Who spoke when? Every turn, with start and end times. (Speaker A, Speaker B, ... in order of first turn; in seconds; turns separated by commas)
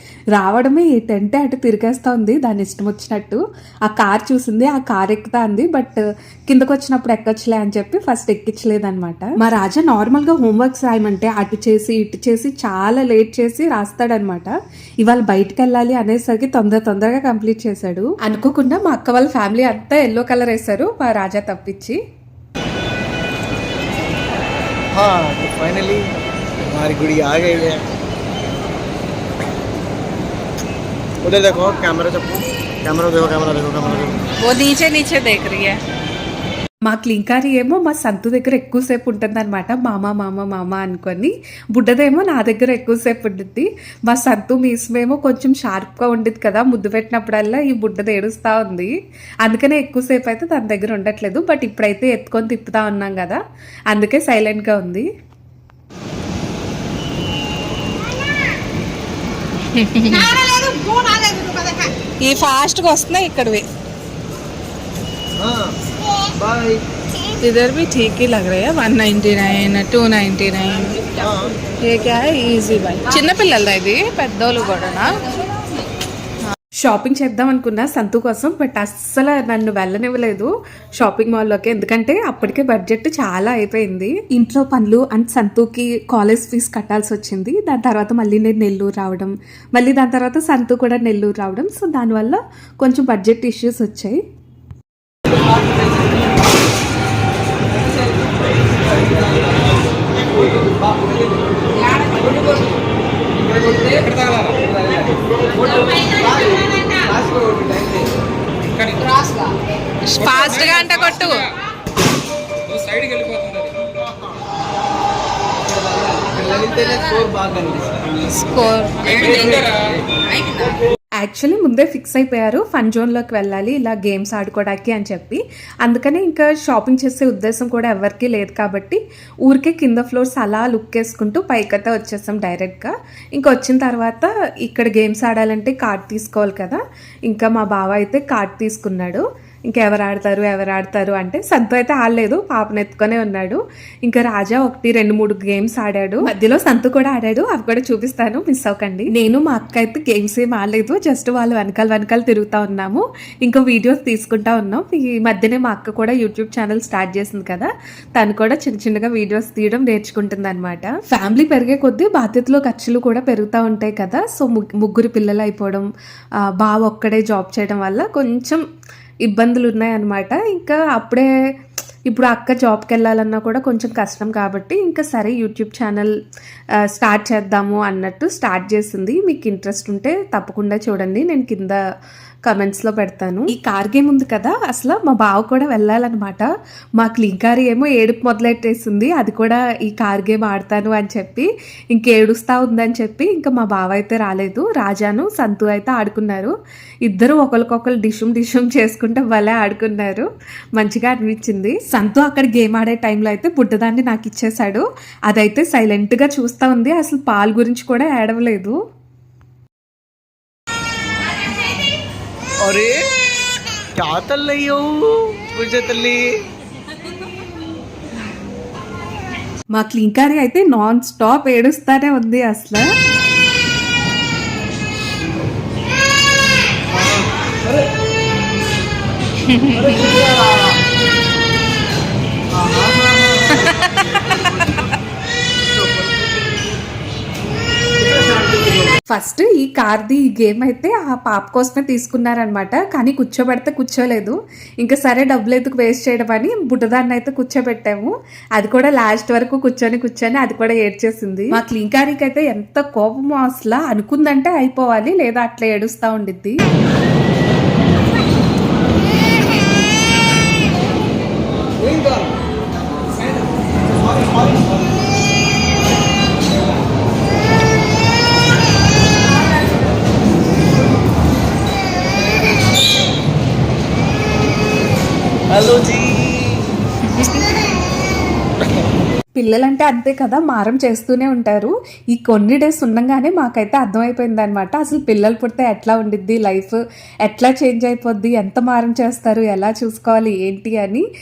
Speaker A: 0.3-22.0, Speaker B: 24.9-26.1, Speaker B: 26.6-27.8, Speaker B: 31.2-34.2, Speaker C: 34.4-35.8, Speaker A: 36.8-48.9, Speaker A: 49.4-55.1, Speaker C: 59.7-63.6, Speaker B: 65.4-65.7, Speaker B: 66.3-66.8, Speaker C: 67.4-71.2, Speaker B: 71.2-71.5, Speaker C: 71.8-75.5, Speaker A: 76.8-94.2, Speaker C: 102.1-102.6, Speaker C: 110.0-111.4, Speaker B: 116.1-117.9, Speaker C: 118.3-120.8, Speaker A: 121.2-165.9, Speaker A: 166.5-168.6, Speaker A: 169.2-171.3, Speaker A: 172.1-176.1, Speaker A: 176.8-181.8, Speaker A: 182.4-186.5, Speaker A: 187.0-196.5, Speaker A: 197.1-208.8, Speaker B: 212.6-213.0, Speaker B: 214.0-216.2, Speaker A: 219.7-222.8, Speaker B: 226.9-227.8, Speaker C: 229.4-230.2, Speaker B: 229.7-230.6, Speaker B: 232.5-234.8, Speaker C: 233.6-233.9, Speaker B: 235.7-236.2, Speaker B: 238.0-238.9, Speaker A: 239.1-256.6, Speaker B: 275.5-276.6, Speaker A: 279.4-291.0